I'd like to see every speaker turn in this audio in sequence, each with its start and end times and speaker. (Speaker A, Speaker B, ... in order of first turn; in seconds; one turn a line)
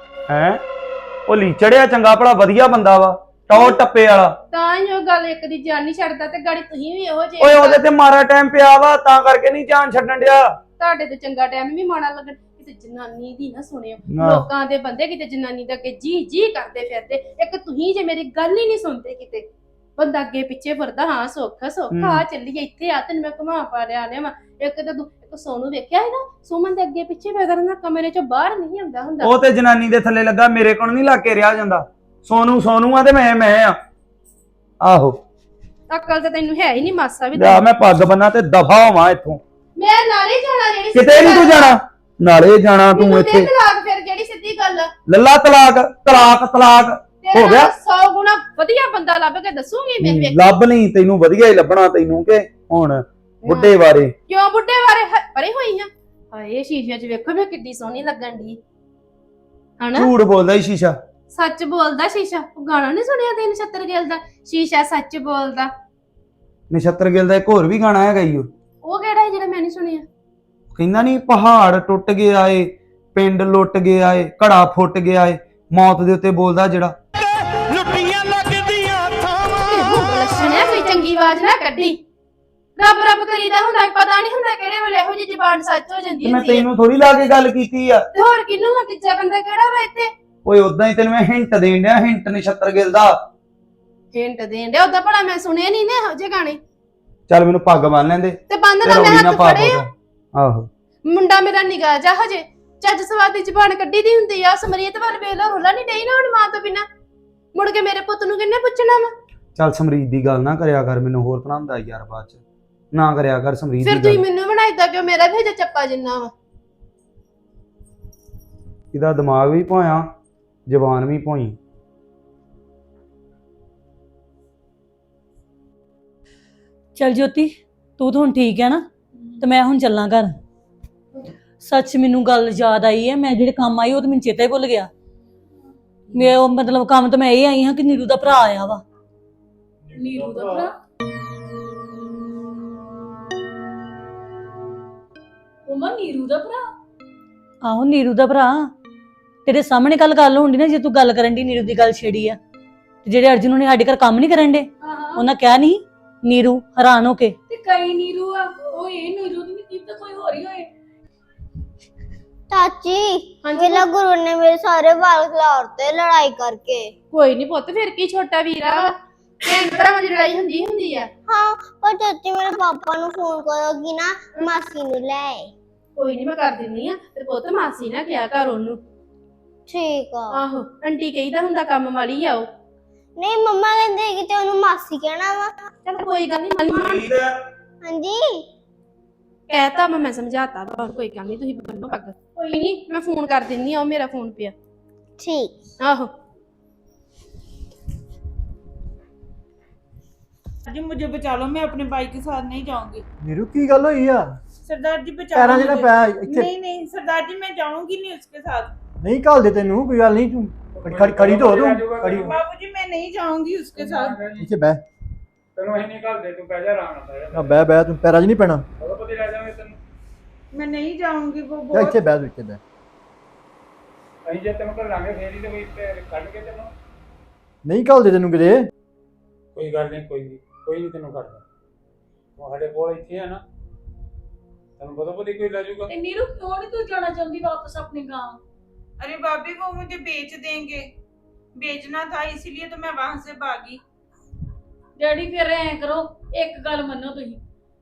Speaker A: 0.3-0.6
Speaker A: 1.3-4.3
Speaker B: 3.5-3.8
Speaker B: 4.5-7.9
Speaker A: 7.4-10.4
Speaker B: 10.8-29.4
Speaker A: 14.1-14.5
Speaker A: 21.9-22.2
Speaker A: 29.2-33.7
Speaker A: 34.9-35.1
Speaker B: 35.9-37.8
Speaker A: 37.3-39.4
Speaker B: 39.8-41.8
Speaker A: 40.9-43.5
Speaker B: 42.9-44.9
Speaker A: 45.1-47.7
Speaker B: 47.2-50.6
Speaker A: 50.0-54.1
Speaker B: 53.4-58.6
Speaker B: 59.8-60.2
Speaker A: 60.0-60.9
Speaker B: 61.3-65.7
Speaker A: 66.7-68.5
Speaker B: 68.8-70.1
Speaker A: 70.8-76.9
Speaker B: 79.5-82.0
Speaker B: 82.8-87.0
Speaker A: 86.2-88.0
Speaker B: 88.1-90.1
Speaker A: 90.5-93.1
Speaker B: 94.1-96.6
Speaker A: 97.3-99.8
Speaker B: 98.5-99.9
Speaker A: 100.4-100.7
Speaker B: 101.1-106.9
Speaker B: 107.5-109.1
Speaker A: 109.6-112.4
Speaker A: 112.9-114.2
Speaker B: 113.8-116.3
Speaker A: 118.9-120.0
Speaker A: 120.7-121.6
Speaker C: 127.0-128.8
Speaker C: 129.4-130.4
Speaker C: 131.6-134.9
Speaker C: 136.1-138.8
Speaker D: 139.9-140.8
Speaker E: 140.1-140.6
Speaker D: 145.7-146.6
Speaker C: 147.6-148.7
Speaker C: 149.4-152.4
Speaker C: 153.0-157.4
Speaker D: 154.8-155.3
Speaker D: 157.5-160.7
Speaker F: 162.5-166.9
Speaker B: 163.4-163.9
Speaker B: 167.1-171.1
Speaker F: 171.3-175.5
Speaker B: 176.0-178.8
Speaker F: 179.7-180.4
Speaker B: 180.3-182.5
Speaker F: 183.2-185.7
Speaker B: 185.8-187.2
Speaker A: 186.7-187.1
Speaker F: 187.8-188.5
Speaker B: 189.5-194.6
Speaker F: 195.2-195.6
Speaker B: 195.8-196.1
Speaker G: 200.7-203.0
Speaker E: 203.2-204.3
Speaker G: 204.7-208.7
Speaker E: 205.3-206.5
Speaker E: 209.0-212.4
Speaker H: 210.8-212.4
Speaker G: 212.3-214.2
Speaker H: 213.8-214.5
Speaker E: 214.4-214.8
Speaker H: 215.6-217.6
Speaker E: 217.3-218.6
Speaker H: 218.8-219.8
Speaker G: 220.5-222.0
Speaker E: 221.7-222.6
Speaker H: 224.3-226.7
Speaker E: 227.7-228.7
Speaker H: 229.6-231.4
Speaker H: 232.4-233.4
Speaker H: 234.8-235.9
Speaker D: 235.9-238.4
Speaker G: 239.0-240.9
Speaker G: 241.6-243.8
Speaker D: 245.0-247.4